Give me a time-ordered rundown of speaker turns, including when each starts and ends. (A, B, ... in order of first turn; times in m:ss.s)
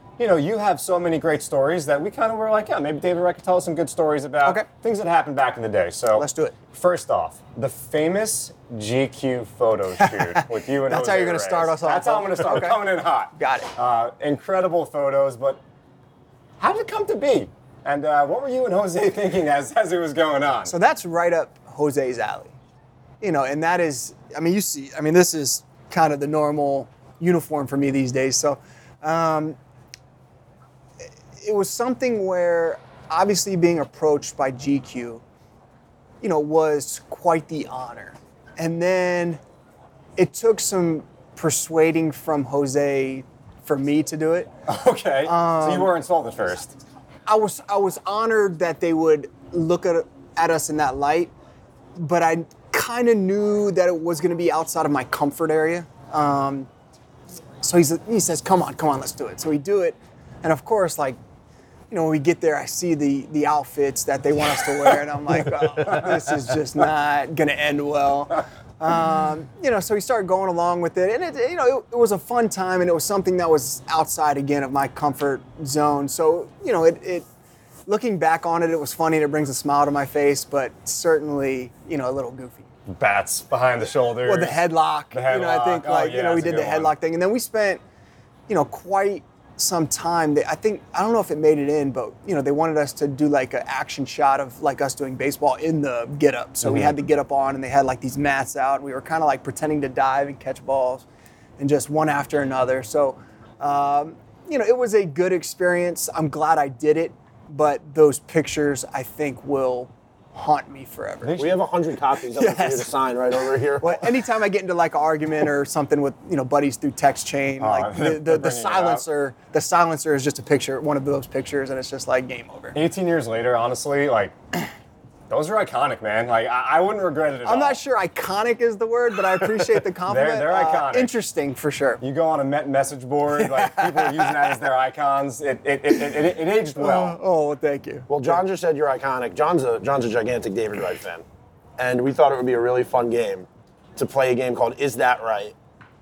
0:00.2-0:15.6 A
0:06.2-0:06.6 B
0:10.0-0:12.8 B
0:13.3-0:13.7 B
0:16.6-0:20.7 A
0:20.7-0:22.5 B
0:23.2-0:29.6 B
0:31.4-0:35.2 B
0:36.2-0:39.4 B
0:40.2-0:44.5 B
0:44.7-0:46.7 A
0:45.2-0:46.0 B
0:47.3-0:51.3 B
0:52.0-0:56.7 B
0:57.6-1:01.2 B
1:01.9-1:17.3 B
1:17.9-1:22.7 B
1:22.9-1:27.0 A
1:24.2-1:27.8 B
1:28.5-1:41.1 B
1:36.6-1:36.9 A
1:41.6-1:51.4 B
1:51.2-1:51.6 A
1:51.4-1:54.1 C
1:52.2-1:52.9 B
1:53.5-2:02.8 B
1:57.6-1:59.0 A
2:02.7-2:04.4 A
2:05.3-2:07.8 A
2:07.4-2:12.0 B
2:10.1-2:11.1 A
2:12.0-2:17.2 A
2:13.4-2:14.6 B
2:16.8-2:18.4 B
2:18.1-2:21.2 C
2:21.8-2:25.6 C